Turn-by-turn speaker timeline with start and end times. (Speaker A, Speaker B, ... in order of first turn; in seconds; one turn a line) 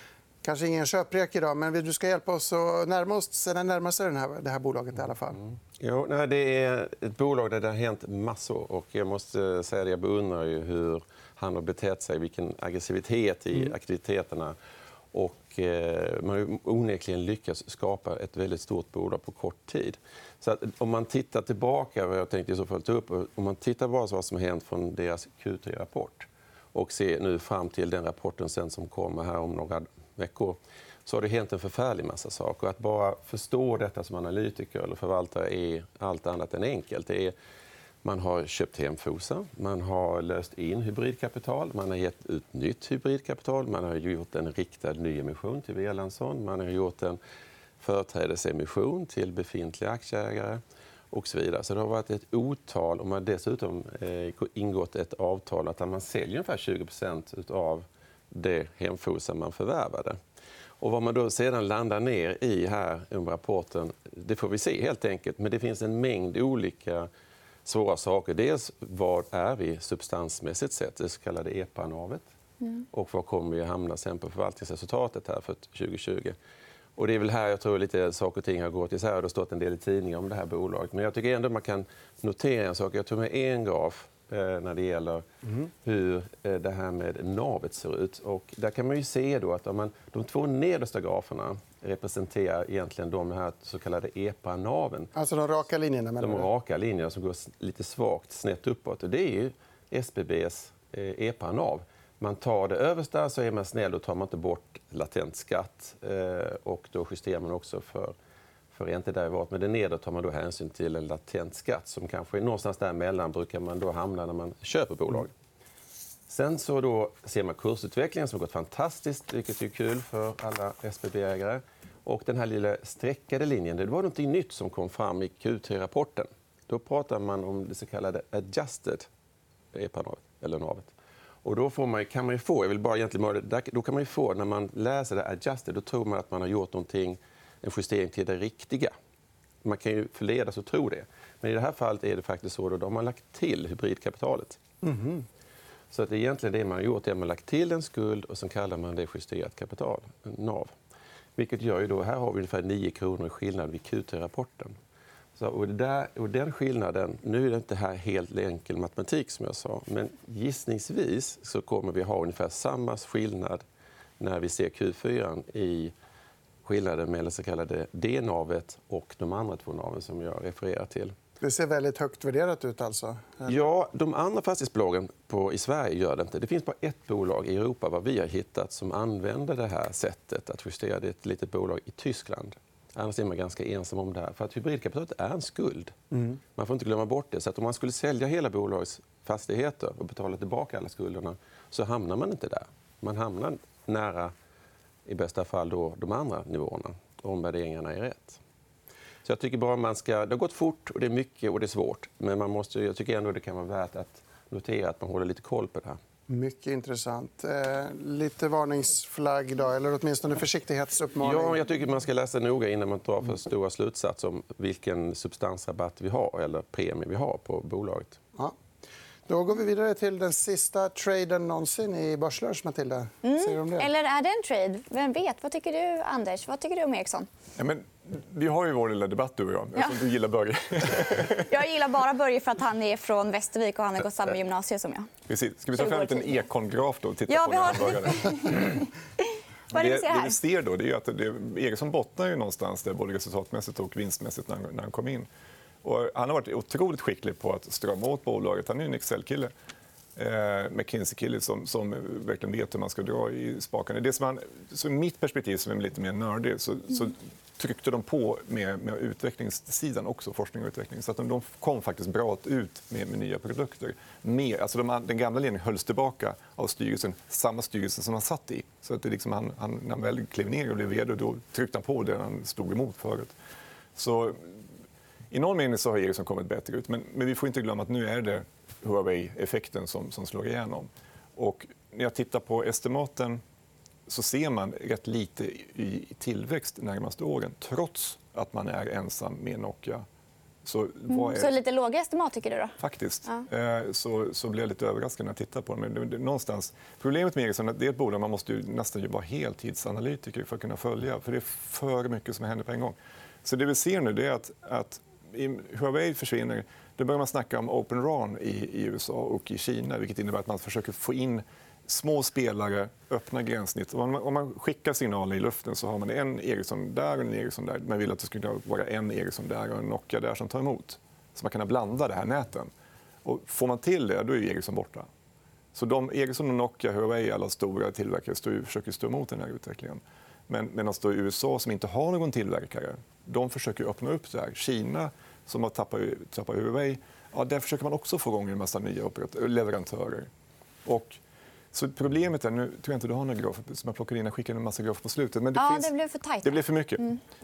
Speaker A: 0.4-5.4
Speaker B: 5.8-14.6
Speaker B: 15.1-37.3
Speaker B: 38.0-47.2
Speaker B: 47.8-60.2
Speaker B: 60.8-67.1
Speaker B: 67.7-72.3
Speaker B: 72.9-76.4
Speaker B: 77.0-85.2
Speaker B: 85.8-95.1
Speaker A: 95.2-96.5
Speaker B: 96.2-108.2
Speaker B: 108.7-115.3
Speaker B: 116.3-129.1
Speaker B: 129.7-130.9
Speaker B: 131.4-138.9
Speaker B: 139.6-144.6
Speaker A: 144.8-145.2
Speaker B: 145.9-150.7
Speaker B: 151.4-154.8
Speaker B: 155.4-163.6
Speaker B: 164.2-165.9
Speaker B: 166.7-171.1
Speaker A: 171.4-173.6
Speaker B: 173.5-185.9
Speaker A: 186.1-186.4
Speaker B: 186.6-194.3
Speaker B: 195.1-198.4
Speaker B: 199.2-206.0
Speaker A: 206.3-211.6
Speaker B: 211.2-218.2
Speaker A: 219.3-223.9
Speaker C: 223.2-227.3
Speaker D: 227.6-231.5
Speaker C: 230.9-235.1
Speaker D: 235.3-238.8
Speaker C: 235.8-236.4
Speaker C: 237.3-238.8
Speaker C: 239.7-240.4
Speaker D: 239.7-245.3
Speaker D: 245.8-249.5
Speaker D: 250.2-273.3
Speaker D: 274.0-274.6
Speaker D: 275.3-283.4
Speaker D: 284.1-290.1
Speaker D: 290.6-291.5
Speaker C: 291.1-292.8
Speaker D: 292.8-322.7
Speaker D: 323.2-325.1
Speaker D: 325.8-340.3
Speaker D: 340.9-341.2
Speaker D: 341.7-347.1
Speaker C: 345.6-347.2